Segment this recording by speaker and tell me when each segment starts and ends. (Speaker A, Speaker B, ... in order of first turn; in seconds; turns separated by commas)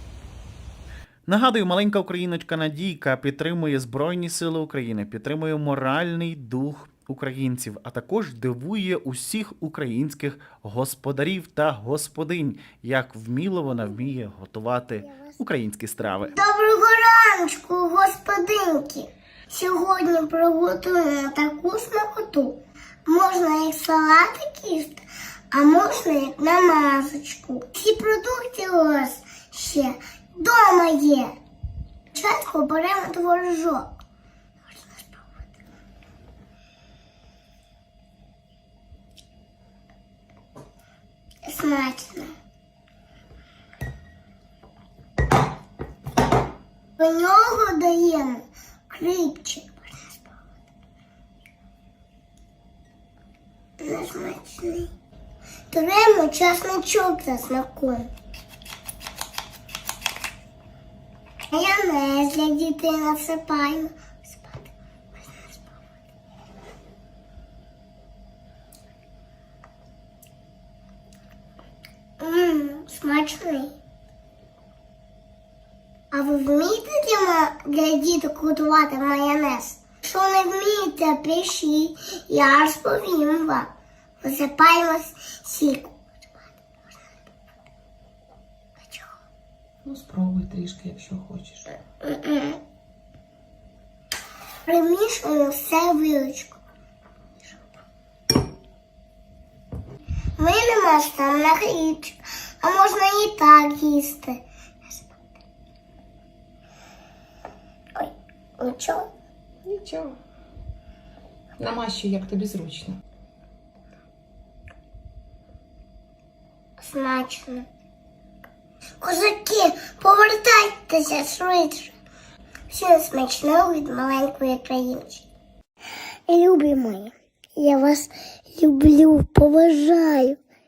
Speaker A: 1.3-16.3, Speaker B: 15.0-15.4, Speaker B: 16.2-31.4, Speaker B: 32.1-33.9, Speaker B: 34.7-35.2, Speaker B: 41.4-42.3, Speaker B: 47.0-50.3, Speaker B: 53.8-54.9, Speaker B: 55.7-58.1, Speaker B: 61.5-65.7, Speaker B: 72.2-73.7, Speaker B: 76.1-86.0, Speaker B: 88.8-89.1, Speaker C: 89.8-91.6, Speaker B: 92.0-92.6, Speaker B: 94.7-96.6, Speaker B: 100.4-105.2, Speaker B: 108.0-109.1, Speaker C: 109.7-110.2, Speaker C: 111.6-113.0, Speaker B: 116.8-117.7, Speaker B: 119.0-121.9, Speaker B: 122.7-125.2, Speaker B: 126.3-130.4